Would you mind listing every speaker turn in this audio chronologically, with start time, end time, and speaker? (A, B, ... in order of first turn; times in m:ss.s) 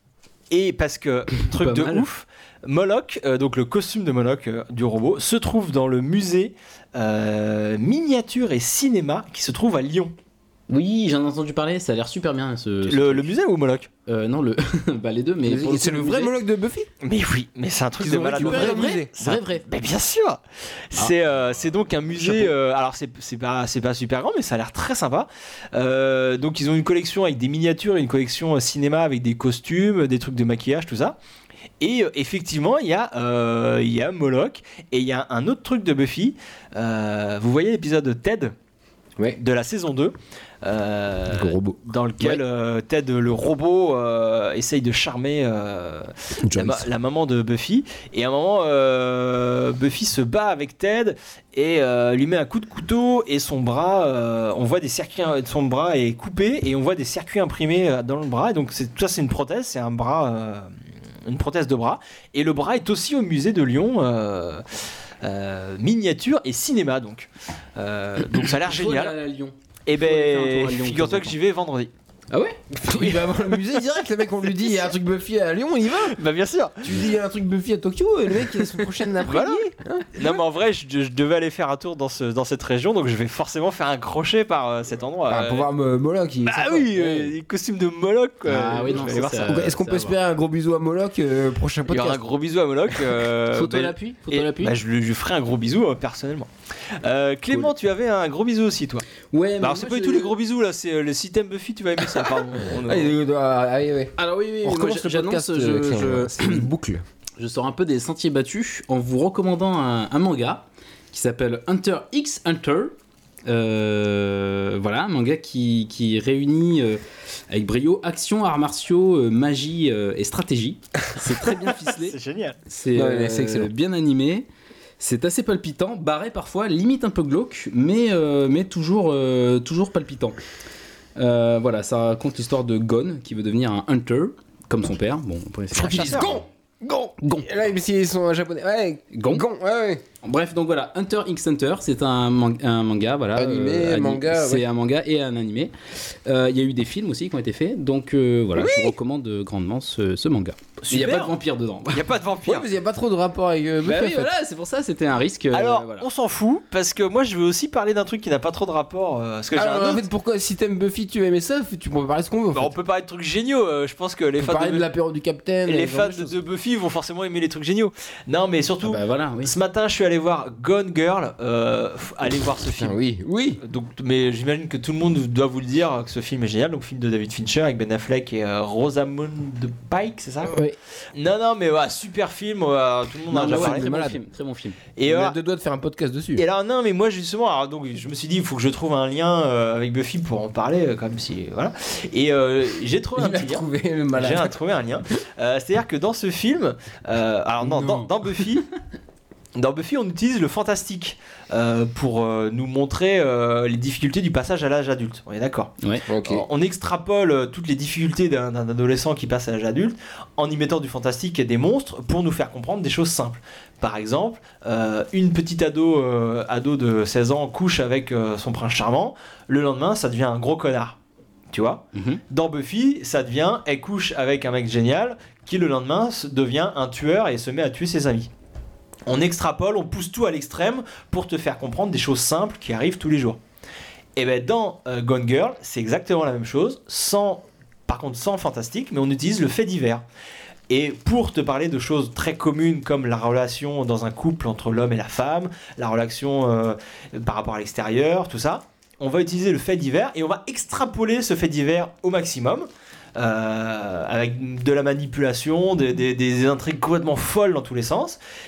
0:00.5-0:10.1 A
0:01.5-0:02.1 B
0:10.7-0:13.3 B
0:12.9-0:13.9 A
0:14.1-0:16.4 B
0:15.4-0:16.9 C
0:17.0-0:20.4 A
0:18.0-0:19.1 C
0:18.3-0:19.7 B
0:20.9-0:31.2 A
0:31.8-0:38.6 A
0:39.4-1:09.2 A
0:41.3-0:42.4 C
0:46.4-0:46.9 C
1:08.3-1:11.3 B
1:09.9-1:11.9 A
1:12.3-1:12.8 B
1:12.8-1:16.2 C
1:12.9-1:13.6 A
1:14.5-1:14.8 A
1:16.0-1:17.1 A
1:16.8-1:20.4 C
1:19.3-1:25.7 A
1:25.3-1:27.3 C
1:26.4-1:29.6 A
1:28.5-1:30.2 B
1:29.4-1:32.3 C
1:31.9-1:39.1 A
1:33.5-1:34.8 B
1:39.3-1:40.4 B
1:39.6-1:43.1 A
1:42.7-1:47.0 C
1:44.2-1:46.7 B
1:47.4-1:52.9 B
1:53.5-2:02.2 B
2:01.4-2:02.6 A
2:02.7-2:04.5 B
2:02.9-2:03.7 C
2:05.0-2:10.4 B
2:11.2-2:16.4 B
2:15.7-2:16.4 A
2:15.8-2:20.0 C
2:17.2-2:17.5 B
2:19.1-2:19.4 B
2:20.2-2:32.1 B
2:23.4-2:24.7 C
2:30.9-2:31.4 A
2:31.9-2:32.7 A
2:32.5-2:34.3 C
2:33.8-2:36.1 B
2:35.5-2:40.0 A
2:39.5-2:42.7 C
2:42.5-2:44.9 A
2:44.4-2:46.3 C
2:45.7-2:53.0 A
2:48.8-2:49.5 B
2:52.7-2:53.6 C
2:53.6-3:00.6 A
3:00.5-3:00.8 C
3:01.1-3:04.2 A
3:03.3-3:04.2 C
3:03.3-3:04.8 B
3:05.0-3:05.4 A
3:05.1-3:06.4 C
3:06.4-3:18.7 A
3:13.2-3:14.6 C
3:19.6-3:41.0 A
3:26.1-3:26.5 C
3:41.5-3:48.3 A
3:41.9-3:42.2 B
3:49.1-3:53.4 A
3:54.2-4:00.0 A
4:00.7-4:18.2 A